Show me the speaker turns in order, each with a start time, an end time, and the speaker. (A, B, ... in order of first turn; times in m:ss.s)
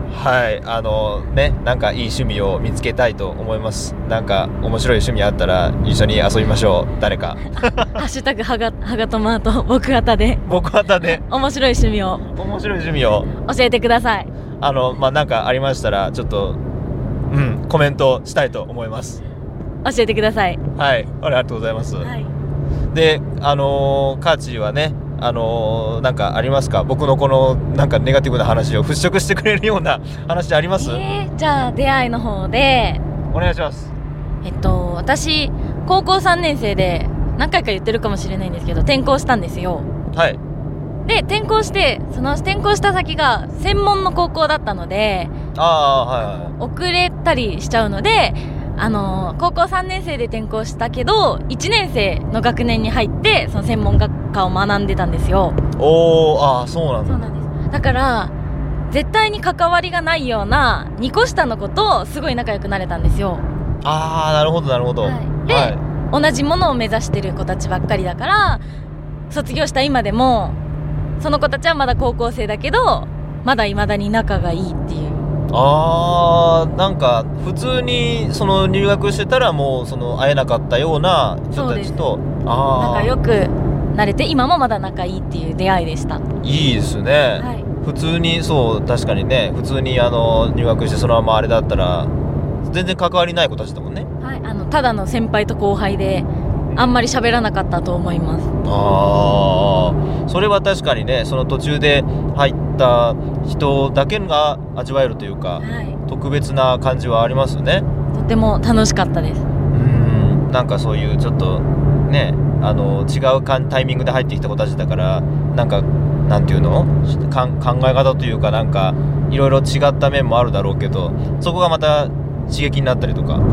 0:00.1-0:08.0 A
0:07.9-0:10.4 B
0:10.4-0:11.2 A
0:11.0-0:12.3 B
0:12.3-0:13.3 A
0:13.3-0:14.3 B
0:14.6-0:16.6 A
0:17.3-0:19.2 A
0:19.8-0:20.6 B
0:20.7-0:22.1 A
0:22.0-0:22.3 B
0:22.9-0:31.0 A
0:30.8-0:33.0 B
0:33.3-0:33.9 A
0:34.4-0:39.9 B
0:40.1-0:40.4 A
0:41.0-0:45.4 B
0:45.5-0:46.5 A
0:46.2-0:55.6 B
0:55.7-0:57.3 A
0:57.0-0:58.3 B
0:58.9-1:03.4 B
1:03.8-1:05.8 A
1:05.0-1:08.6 B
1:09.3-1:10.6 B
1:11.2-1:15.3 B
1:15.5-1:23.1 A
1:21.5-1:22.0 B
1:22.8-1:26.2 B
1:26.4-1:32.1 A
1:27.4-1:27.7 B
1:32.6-1:34.1 A
1:34.2-1:38.5 B
1:38.6-1:47.8 A
1:45.6-1:46.0 B
1:48.1-1:49.4 B
1:49.7-2:03.4 A